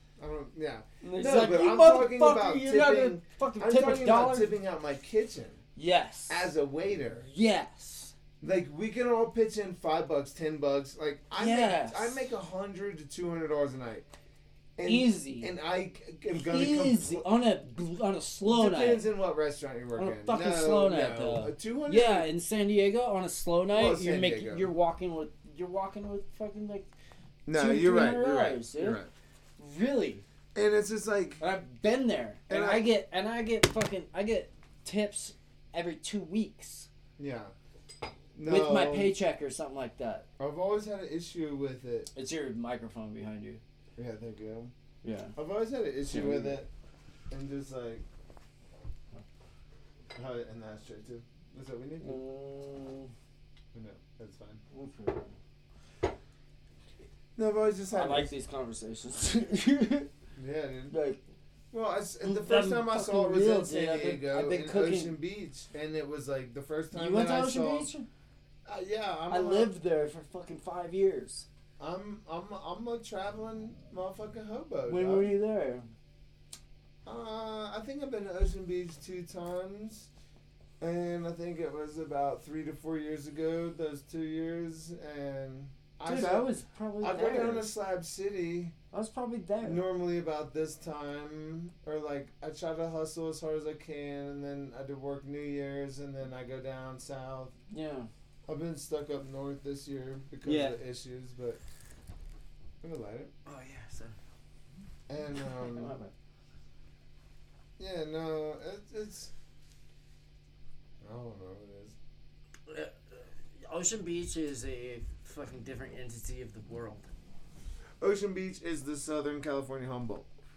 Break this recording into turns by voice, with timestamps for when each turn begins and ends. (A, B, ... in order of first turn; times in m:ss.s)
0:00.2-0:05.6 A
0:01.0-0:04.6 B
0:05.8-0:06.5 B
0:06.3-0:07.2 A
0:07.2-0:08.2 B
0:08.4-0:14.1 A
0:11.4-0:12.2 B
0:14.8-0:17.3 A
0:14.8-0:15.5 B
0:16.4-0:19.0 B
0:18.5-0:22.3 A
0:20.0-0:26.9 B
0:23.7-0:24.7 A
0:27.5-0:29.1 A
0:27.5-0:29.0 B
0:29.6-0:30.2 B
0:30.6-0:31.4 A
0:31.4-0:36.9 B
0:32.5-0:32.9 A
0:37.2-0:37.5 A
0:38.4-0:39.2 A
0:38.4-0:40.3 B
0:40.4-0:42.1 A
0:42.1-0:43.6 B
0:44.0-0:44.7 A
0:45.0-0:45.4 B
0:45.4-0:46.7 A
0:46.1-0:46.6 B
0:47.3-0:48.0 A
0:50.2-0:52.2 A
0:52.0-0:53.1 B
0:53.7-0:54.6 A
0:54.7-0:55.3 B
0:57.4-0:58.3 A
0:57.9-1:00.1 B
1:00.4-1:01.0 A
1:00.9-1:01.2 B
1:01.7-1:07.9 A
1:02.2-1:05.2 B
1:06.9-1:08.1 B
1:08.7-1:09.7 A
1:09.3-1:11.5 B
1:11.8-1:15.3 A
1:14.9-1:15.9 B
1:17.0-1:20.1 A
1:20.8-1:26.5 A
1:26.0-1:27.7 B
1:27.0-1:28.7 A
1:28.9-1:29.8 B
1:29.6-1:37.5 A
1:37.7-1:38.1 B
1:38.5-1:41.6 A
1:40.4-1:40.8 B
1:42.8-1:43.3 A
1:43.5-1:44.2 B
1:45.1-1:46.0 A
1:45.4-1:46.1 B
1:47.8-1:49.3 A
1:51.0-1:52.0 A
1:52.7-1:57.1 B
1:58.0-2:00.3 A